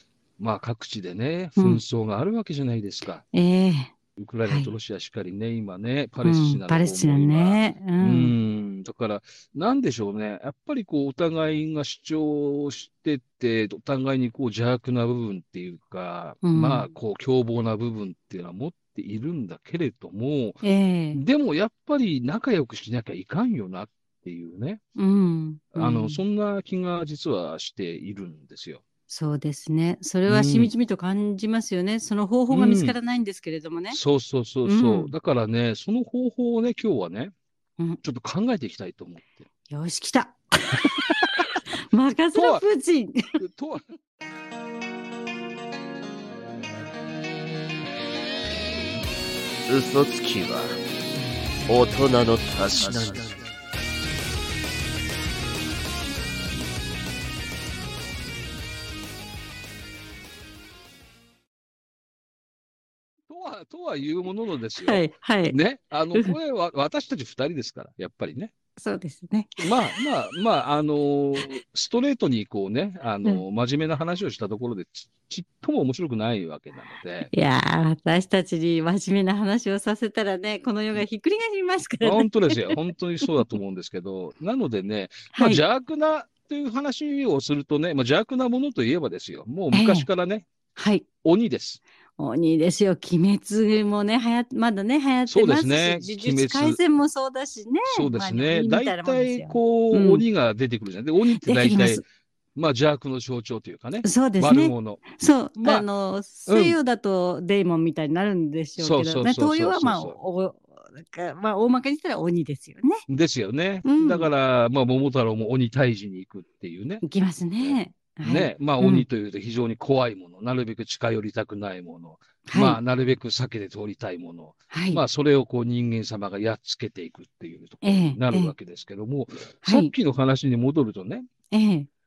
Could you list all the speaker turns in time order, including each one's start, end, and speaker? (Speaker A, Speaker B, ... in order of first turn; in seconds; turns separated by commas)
Speaker A: 0.4-3.2, Speaker B: 1.6-1.8, Speaker B: 3.3-3.9, Speaker A: 4.2-20.6, Speaker B: 6.2-8.3, Speaker B: 16.4-16.9, Speaker B: 20.6-21.2, Speaker A: 21.1-24.8, Speaker B: 24.9-26.2, Speaker A: 25.7-28.8, Speaker B: 29.1-34.0, Speaker A: 30.3-30.7, Speaker A: 32.5-32.9, Speaker A: 33.9-37.3, Speaker B: 34.6-35.1, Speaker A: 38.0-39.4, Speaker B: 39.7-41.2, Speaker B: 41.9-43.4, Speaker A: 42.3-42.6, Speaker A: 43.4-43.9, Speaker C: 49.7-50.8, Speaker C: 51.7-53.4, Speaker A: 63.3-68.5, Speaker B: 64.8-65.6, Speaker B: 68.8-70.0, Speaker A: 69.6-77.3, Speaker B: 77.3-83.5, Speaker A: 82.0-90.5, Speaker B: 85.3-85.6, Speaker B: 89.7-90.1, Speaker B: 90.8-91.0, Speaker A: 91.2-91.8, Speaker B: 92.2-100.2, Speaker A: 95.3-96.8, Speaker A: 97.9-105.0, Speaker B: 101.4-102.0, Speaker B: 104.0-113.0, Speaker A: 105.6-105.8, Speaker A: 106.5-106.8, Speaker A: 108.8-110.2, Speaker A: 113.1-117.0, Speaker B: 113.8-114.3, Speaker B: 117.0-119.0, Speaker A: 117.6-131.2, Speaker B: 122.5-122.8, Speaker B: 124.7-125.0, Speaker B: 127.8-128.5, Speaker B: 129.6-129.9, Speaker B: 131.5-131.9